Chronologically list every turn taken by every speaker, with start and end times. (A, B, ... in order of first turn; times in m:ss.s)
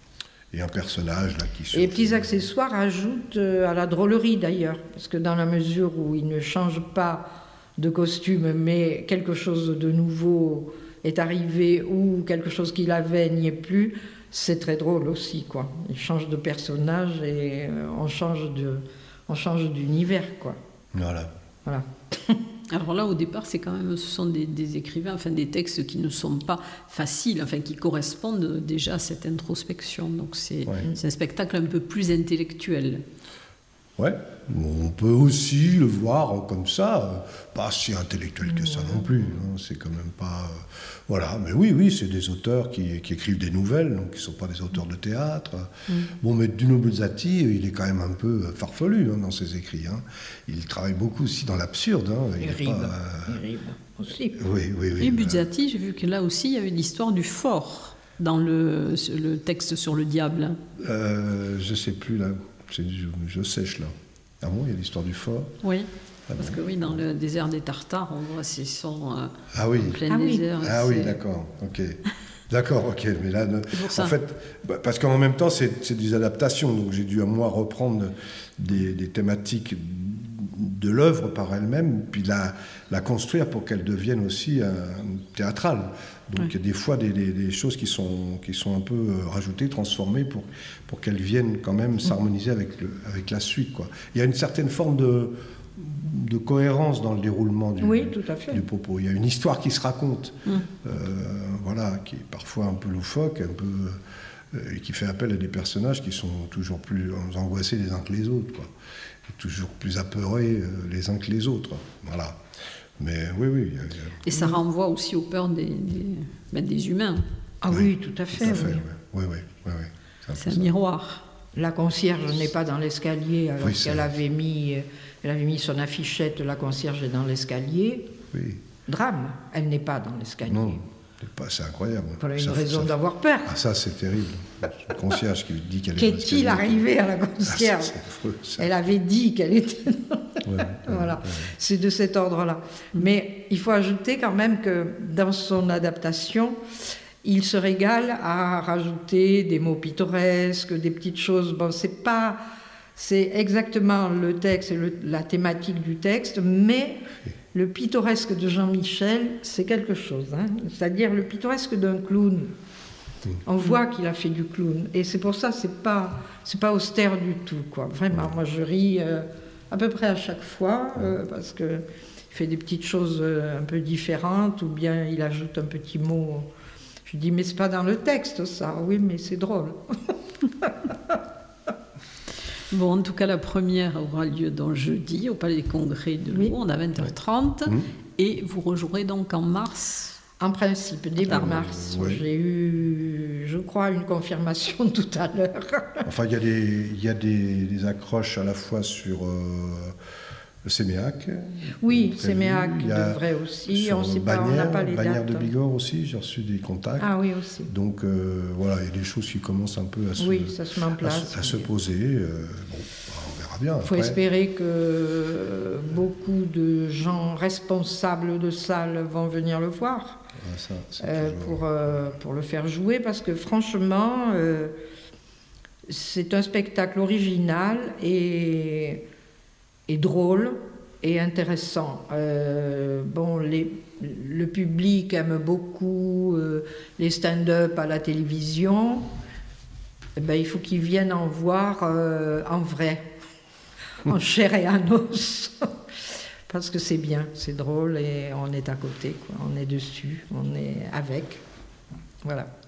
0:00.5-0:02.4 A
0:01.7-0:20.6 B
0:20.9-0:21.3 A
0:21.6-0:22.4 B
0:22.7-0:33.0 C
0:34.0-0:53.4 A
0:38.6-0:39.0 B
0:52.4-0:54.4 B
0:54.4-0:55.4 A
0:55.0-1:00.6 C
1:00.8-1:05.6 A
1:05.6-1:09.3 C
1:06.3-1:07.0 A
1:09.5-1:10.0 A
1:09.8-1:11.2 C
1:10.1-1:10.5 B
1:10.6-1:48.7 A
1:13.7-1:14.1 C
1:37.8-1:38.6 B
1:49.3-1:52.4 A
1:53.0-1:54.2 A
1:54.2-1:57.2 C
1:54.3-1:54.6 B
1:57.6-1:58.8 B
1:57.7-2:00.7 A
2:00.4-2:01.2 C
2:01.5-2:08.1 B
2:03.6-2:04.1 A
2:08.3-2:08.6 A
2:08.8-2:10.8 B
2:10.5-2:16.8 A
2:12.2-2:13.6 B
2:16.0-2:18.0 B
2:17.4-2:18.7 A
2:18.6-2:26.6 B
2:20.4-2:21.5 A
2:27.2-2:32.4 B
2:33.0-2:37.0 B
2:37.5-2:42.5 B
2:43.4-2:56.5 B
2:57.0-3:00.9 B
3:02.7-3:10.2 C
3:10.4-3:16.0 B
3:11.3-3:12.2 A
3:11.3-3:11.5 C
3:16.0-3:20.0 A
3:20.6-3:27.1 A
3:21.8-3:25.5 B
3:27.0-3:27.7 B
3:27.7-3:34.2 A
3:30.2-3:31.7 B
3:33.8-3:40.2 B
3:40.4-3:41.6 A
3:41.0-3:44.7 B
3:45.9-3:49.0 B
3:49.9-3:59.1 B
4:00.2-4:03.1 B
4:04.0-4:05.8 B
4:06.5-4:11.4 B
4:12.2-4:12.5 B